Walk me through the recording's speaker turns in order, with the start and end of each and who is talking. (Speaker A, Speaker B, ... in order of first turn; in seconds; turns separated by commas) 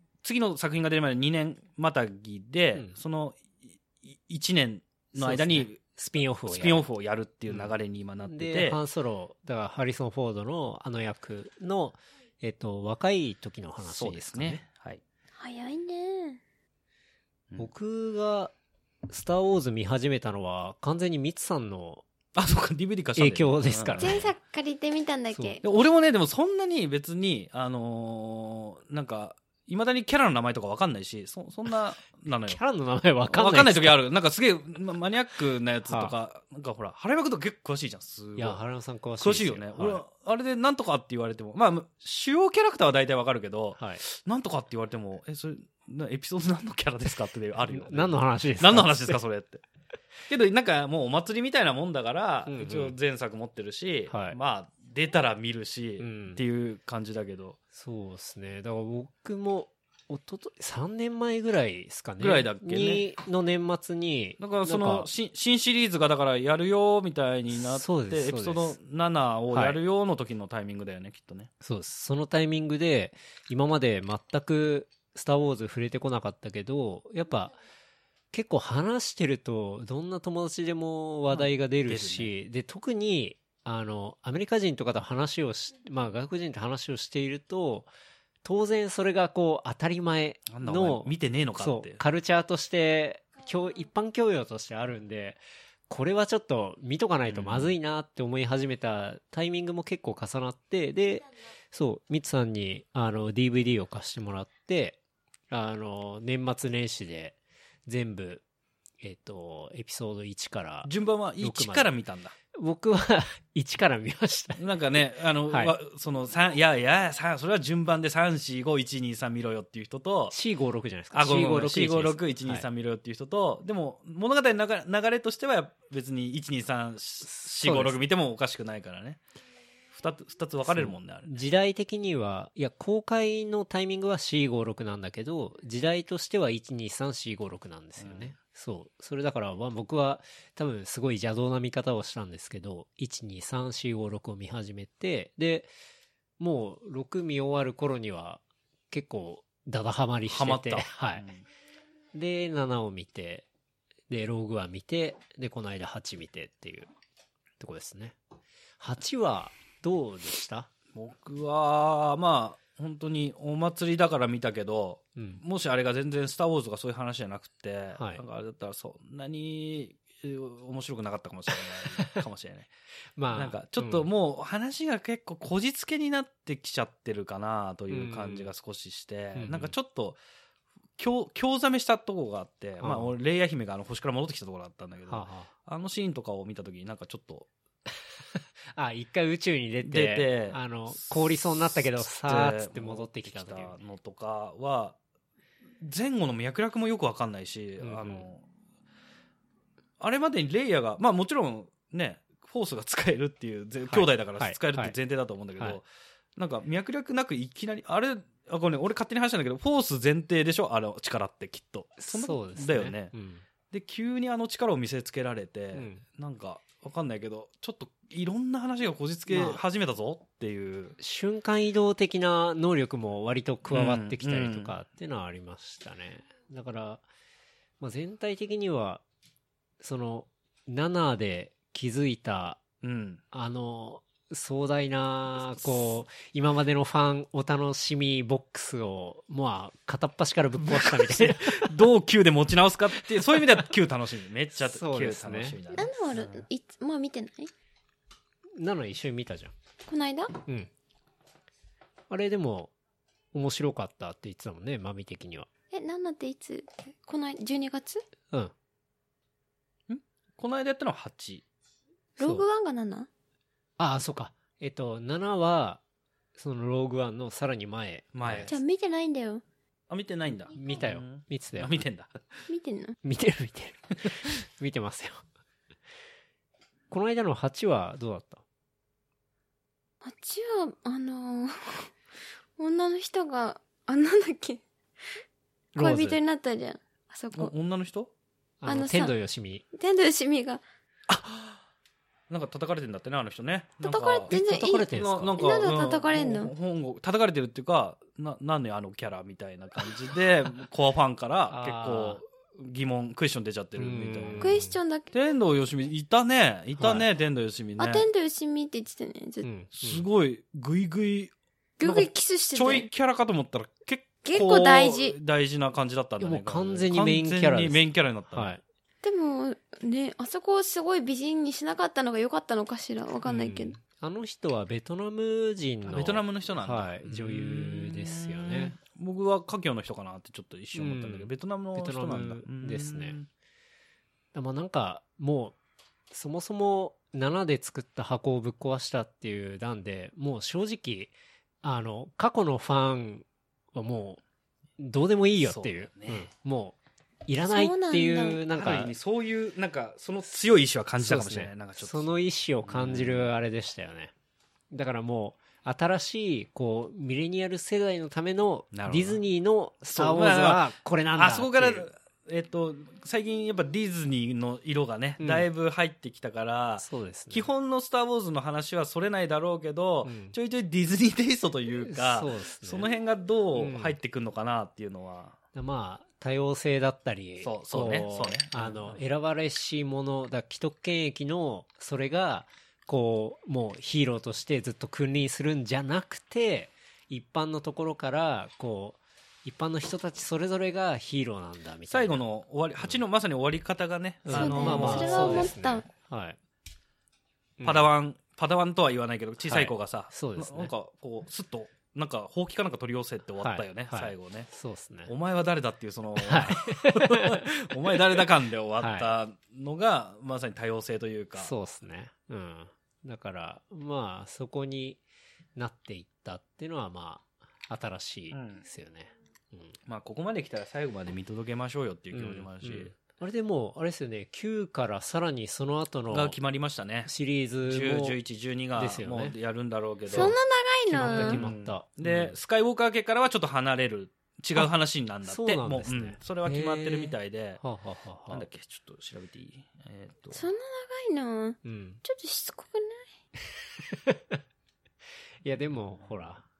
Speaker A: 0.2-5.8, Speaker B: 2.7-3.0, Speaker B: 5.2-6.9, Speaker A: 6.5-8.8, Speaker B: 7.5-7.7, Speaker B: 8.3-14.6, Speaker A: 13.8-15.0, Speaker C: 15.4-16.4, Speaker B: 17.6-18.5, Speaker B: 19.1-22.0, Speaker A: 22.3-24.3, Speaker B: 23.2-24.1, Speaker C: 24.0-25.6, Speaker B: 25.3-25.6, Speaker A: 25.6-32.6, Speaker B: 32.3-34.0, Speaker A: 33.3-38.6, Speaker B: 35.8-36.1, Speaker B: 38.4-40.0, Speaker A: 39.2-49.6, Speaker B: 43.8-44.0, Speaker B: 47.7-49.2, Speaker A: 50.3-57.6, Speaker B: 52.5-52.9, Speaker B: 54.1-54.4, Speaker B: 56.0-56.4, Speaker B: 57.7-65.1, Speaker A: 62.2-63.0, Speaker A: 64.4-71.5, Speaker B: 67.5-68.8, Speaker B: 69.5-69.8, Speaker B: 71.6-77.5, Speaker B: 78.3-87.9, Speaker A: 81.3-82.3, Speaker B: 88.4-108.4, Speaker A: 90.5-92.0, Speaker A: 97.3-97.7, Speaker B: 109.0-111.9, Speaker A: 110.8-112.3, Speaker B: 112.5-114.8, Speaker A: 114.6-120.3, Speaker B: 115.4-115.7, Speaker B: 120.3-122.6, Speaker A: 121.1-129.2, Speaker B: 127.2-128.0, Speaker A: 129.9-131.3, Speaker B: 130.7-145.7, Speaker A: 138.0-138.3, Speaker B: 146.4-151.3, Speaker A: 150.3-151.4, Speaker B: 152.1-153.4, Speaker B: 154.1-156.9, Speaker B: 157.6-158.2, Speaker B: 158.8-160.7, Speaker A: 160.9-172.7, Speaker B: 165.2-165.4, Speaker B: 167.9-168.2, Speaker B: 171.5-172.2, Speaker B: 173.2-174.1, Speaker A: 173.3-180.2, Speaker B: 177.9-178.5, Speaker B: 179.3-179.7, Speaker A: 181.0-187.5, Speaker B: 182.8-183.1, Speaker B: 185.1-185.5, Speaker B: 188.3-193.8, Speaker A: 189.8-195.0, Speaker A: 195.8-198.4, Speaker B: 197.8-198.3, Speaker A: 200.0-213.1, Speaker B: 203.8-204.9, Speaker B: 212.0-213.4, Speaker A: 213.7-221.0, Speaker B: 215.7-216.0, Speaker B: 219.3-219.6, Speaker B: 221.0-227.0, Speaker A: 223.7-224.8, Speaker B: 227.8-229.0, Speaker B: 229.8-232.6, Speaker A: 232.8-233.2, Speaker B: 233.3-241.7, Speaker A: 235.3-235.9, Speaker A: 240.6-246.4, Speaker B: 244.6-245.6, Speaker C: 245.7-247.5, Speaker B: 248.6-249.5, Speaker C: 249.8-250.4, Speaker B: 250.4-250.7, Speaker B: 252.1-252.7, Speaker B: 253.3-255.5, Speaker C: 255.7-258.0, Speaker A: 259.9-261.4, Speaker C: 262.2-263.1, Speaker B: 263.8-265.8, Speaker B: 266.4-268.5, Speaker A: 268.1-268.5, Speaker C: 268.5-269.4, Speaker A: 269.9-272.1, Speaker B: 270.5-271.8, Speaker C: 272.5-272.9, Speaker B: 273.0-275.2, Speaker B: 276.9-278.4, Speaker C: 280.0-281.9, Speaker C: 282.6-284.6, Speaker B: 285.7-286.2, Speaker C: 285.8-287.5, Speaker A: 287.3-288.1, Speaker B: 288.6-289.6, Speaker C: 288.6-289.1, Speaker C: 289.7-290.6, Speaker A: 291.1-291.6, Speaker A: 292.3-308.1, Speaker C: 293.8-296.5, Speaker B: 294.3-295.4, Speaker B: 301.5-302.2, Speaker B: 303.8-304.8, Speaker C: 304.4-305.1, Speaker B: 306.8-307.1, Speaker C: 307.8-309.4, Speaker B: 309.4-310.1, Speaker A: 309.7-318.5, Speaker C: 311.8-312.9, Speaker C: 314.2-315.1, Speaker B: 316.2-318.6, Speaker C: 319.0-323.8, Speaker A: 323.3-323.8, Speaker B: 324.0-328.8, Speaker A: 325.9-333.3, Speaker B: 330.7-333.2, Speaker B: 334.3-335.6, Speaker B: 336.1-344.2, Speaker B: 344.8-348.9, Speaker A: 345.4-346.3, Speaker C: 347.4-348.4, Speaker A: 348.5-352.1, Speaker B: 351.0-354.1, Speaker A: 352.6-353.3, Speaker B: 354.7-361.9, Speaker A: 358.7-359.2, Speaker A: 359.9-375.4, Speaker B: 365.2-365.5, Speaker B: 366.8-367.5, Speaker B: 370.0-370.4, Speaker B: 371.8-372.9, Speaker B: 373.6-374.0, Speaker B: 375.5-392.2, Speaker A: 377.4-379.0, Speaker A: 391.9-395.5, Speaker B: 394.2-396.4, Speaker C: 394.3-395.8, Speaker B: 397.6-397.9, Speaker A: 397.6-404.5, Speaker B: 399.4-400.7, Speaker B: 403.4-405.1, Speaker A: 405.1-411.5, Speaker B: 406.2-408.1, Speaker B: 408.8-409.1, Speaker B: 411.4-415.0, Speaker B: 415.6-419.8, Speaker A: 418.3-418.6, Speaker A: 419.9-422.9, Speaker B: 422.1-426.4, Speaker A: 426.1-427.1, Speaker B: 427.0-428.2, Speaker A: 427.6-430.4, Speaker B: 428.8-429.3, Speaker B: 430.1-430.4, Speaker C: 430.1-431.4, Speaker B: 430.9-432.4, Speaker A: 431.0-437.6, Speaker B: 435.2-438.4, Speaker A: 438.3-440.4, Speaker C: 440.3-443.0, Speaker B: 441.6-442.0, Speaker B: 443.6-444.4, Speaker B: 445.4-446.4